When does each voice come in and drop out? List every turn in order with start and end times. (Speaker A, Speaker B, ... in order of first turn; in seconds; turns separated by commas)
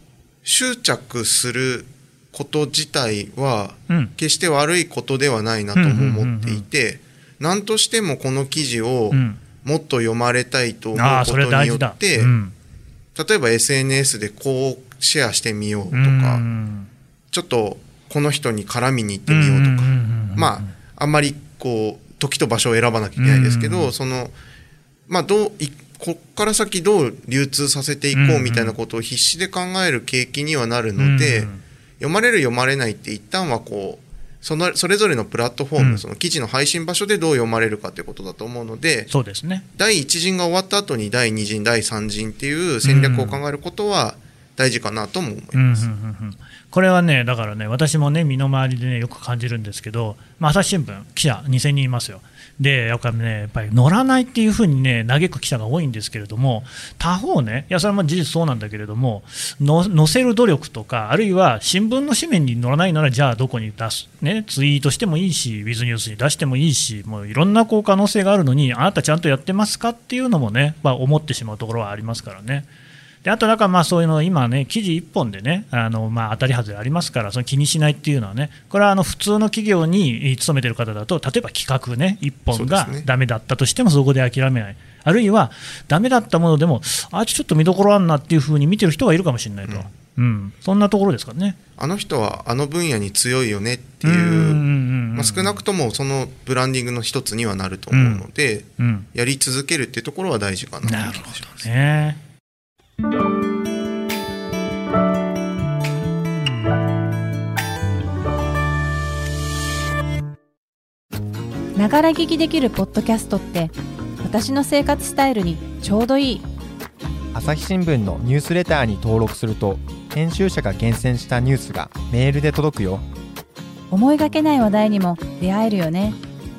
Speaker A: 0.4-12.3, Speaker B: 5.8-6.7, Speaker B: 9.1-9.4, Speaker B: 10.9-12.5, Speaker A: 13.1-16.4, Speaker B: 15.9-16.9, Speaker A: 17.3-24.3, Speaker B: 19.3-20.7, Speaker B: 23.2-23.9, Speaker A: 25.1-39.1, Speaker B: 28.1-28.7, Speaker B: 31.0-31.6, Speaker B: 35.8-36.0, Speaker B: 39.1-39.6, Speaker A: 39.7-45.9, Speaker B: 42.8-43.4, Speaker B: 45.5-72.7, Speaker B: 73.2-91.6, Speaker A: 82.5-83.1, Speaker A: 91.8-94.6, Speaker B: 94.0-95.6, Speaker A: 95.1-101.7, Speaker B: 97.9-98.2, Speaker B: 98.8-99.1, Speaker B: 100.8-102.2, Speaker C: 111.8-116.5, Speaker D: 117.3-123.0, Speaker C: 123.9-126.2